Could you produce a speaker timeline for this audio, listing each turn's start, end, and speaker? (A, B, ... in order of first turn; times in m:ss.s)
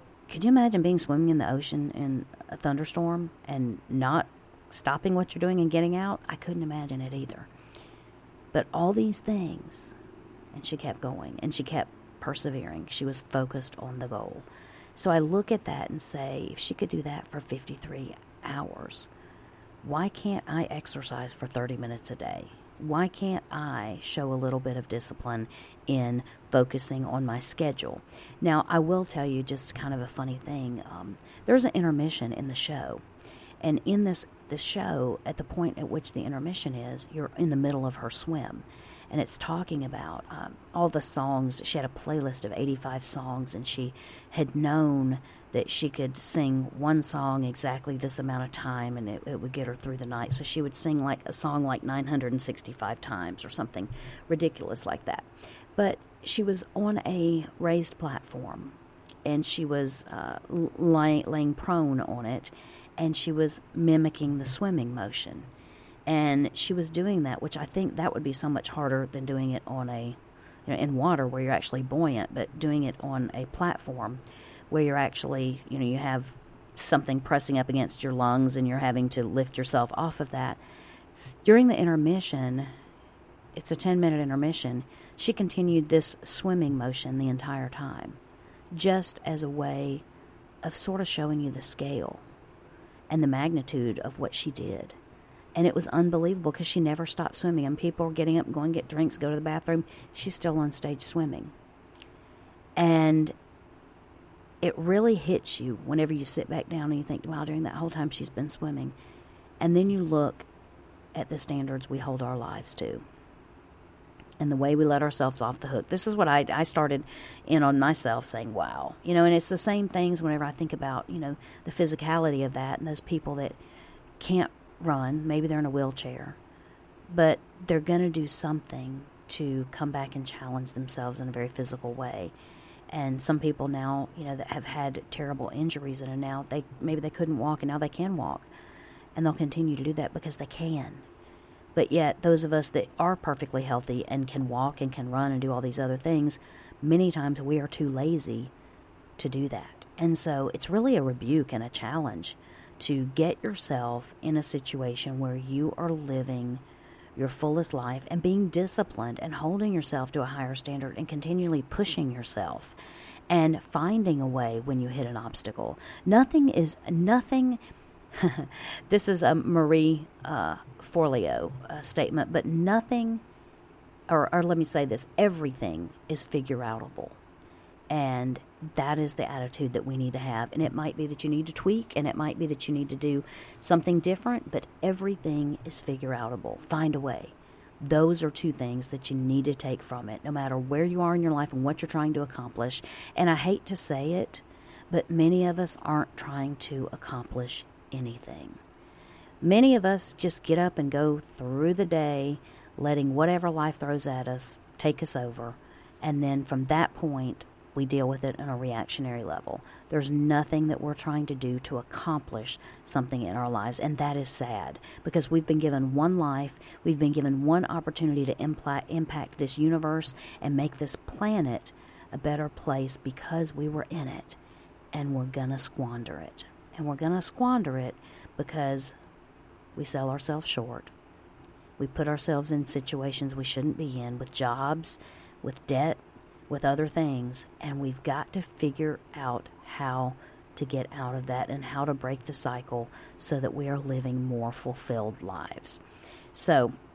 0:00.3-0:07.5 A
0:08.5-0:10.0 A
0:10.5-0:19.1 A
0:19.8-0:33.0 A
0:33.6-1:05.5 A
1:06.1-1:20.6 A
1:21.4-1:22.7 A
1:23.6-1:28.2 A
1:28.7-1:30.0 A
1:30.6-1:32.2 A
1:33.1-1:35.0 A
1:35.6-1:41.5 A
1:42.8-1:43.3 A
1:44.6-1:49.0 A
1:49.6-1:50.5 A
1:51.1-1:53.0 A
1:54.4-2:03.6 A
2:04.2-2:06.4 A
2:07.1-2:12.3 A
2:12.9-2:18.5 A
2:19.2-2:21.1 A
2:21.8-2:28.5 A
2:29.2-2:36.6 A
2:37.2-2:42.8 A
2:43.3-2:47.6 A
2:48.1-2:53.2 A
2:54.1-2:57.2 A
2:57.9-3:18.6 A
3:19.4-3:44.4 A
3:44.9-3:49.0 A
3:49.8-3:50.9 A
3:51.8-4:05.8 A
4:06.3-4:06.8 A